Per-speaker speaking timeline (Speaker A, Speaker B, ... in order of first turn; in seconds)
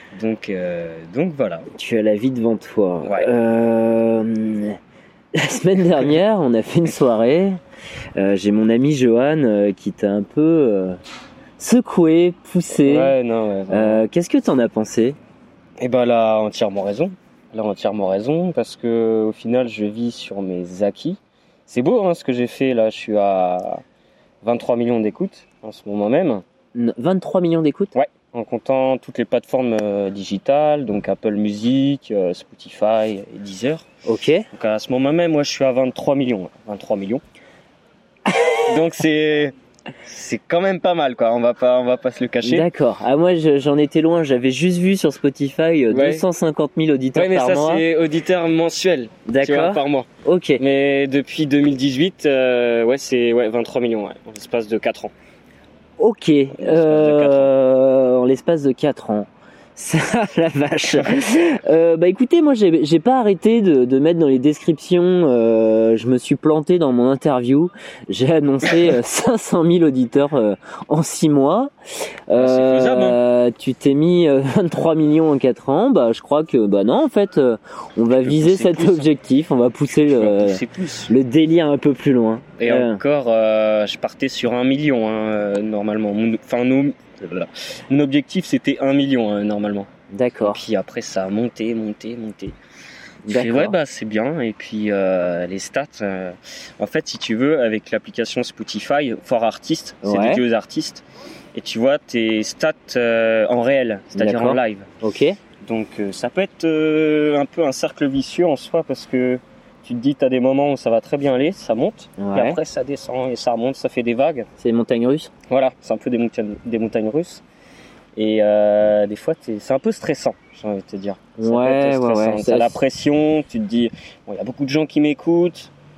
Speaker A: 0.1-1.7, 3.0-3.3, 12.8-14.0, 15.8-23.8, 24.4-26.4, 27.9-33.9, 34.5-37.2, 38.6-42.7, 45.9-46.2, 47.1-55.1, 56.5-57.5, 72.4-73.2, 78.2-79.1, 79.9-81.1, 82.6-89.9, 90.4-92.5, 93.3-104.9, 105.6-114.5, 115.5-117.4, 118.2-125.7
Speaker B: 1.7-4.8, 5.3-7.6, 8.2-11.0, 11.6-13.2, 13.7-15.2, 26.7-27.9, 34.0-34.5, 42.4-47.8, 49.2-50.6, 56.0-71.7, 72.3-83.0, 90.1-90.6, 93.2-93.8, 100.0-100.4, 104.1-105.4, 112.2-112.6, 114.6-115.3, 121.4-122.8